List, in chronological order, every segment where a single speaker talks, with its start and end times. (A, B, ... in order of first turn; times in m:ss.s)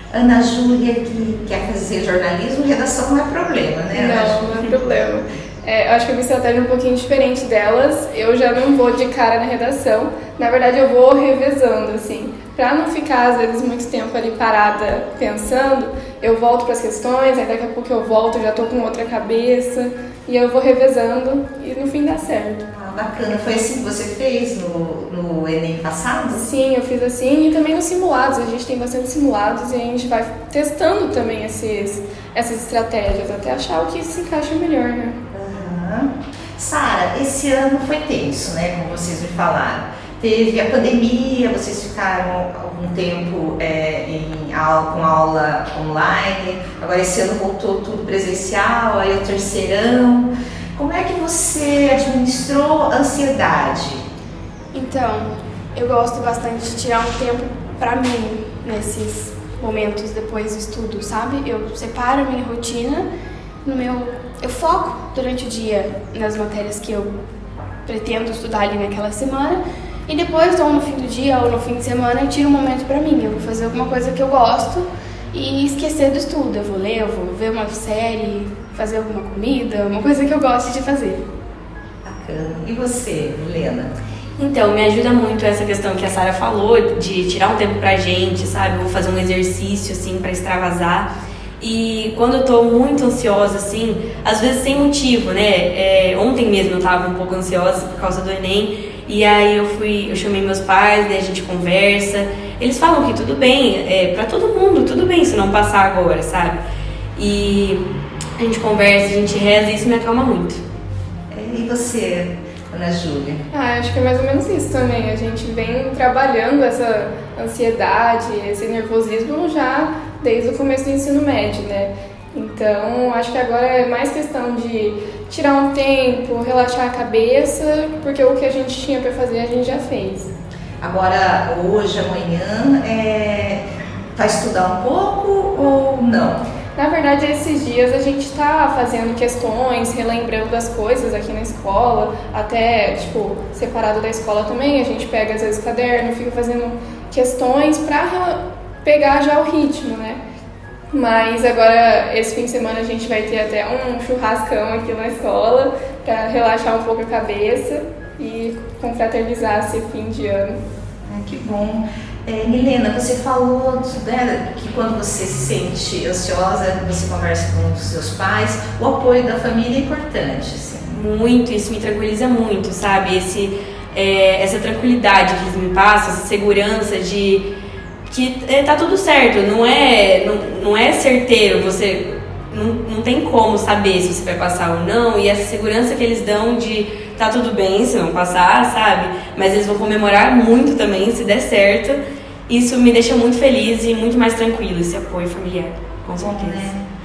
0:00.1-0:04.5 A
0:03.9-0:22.6 B
0:22.7-0:26.4 A
0:26.3-0:35.2 B
0:35.3-0:54.0 A
0:54.7-1:03.1 C
1:03.6-1:07.1 C
1:07.9-1:21.3 C
1:22.0-1:23.9 A
1:24.4-1:46.6 D
1:47.2-1:47.8 D
1:48.4-1:50.6 D
1:51.3-1:53.4 A
1:53.5-2:10.3 B
2:10.8-2:13.6 A
2:14.2-2:16.4 A
2:16.8-2:30.2 B
2:30.9-2:40.6 B
2:41.1-2:51.0 A
2:50.9-2:57.4 D
2:58.1-3:16.7 D
3:16.2-3:16.8 A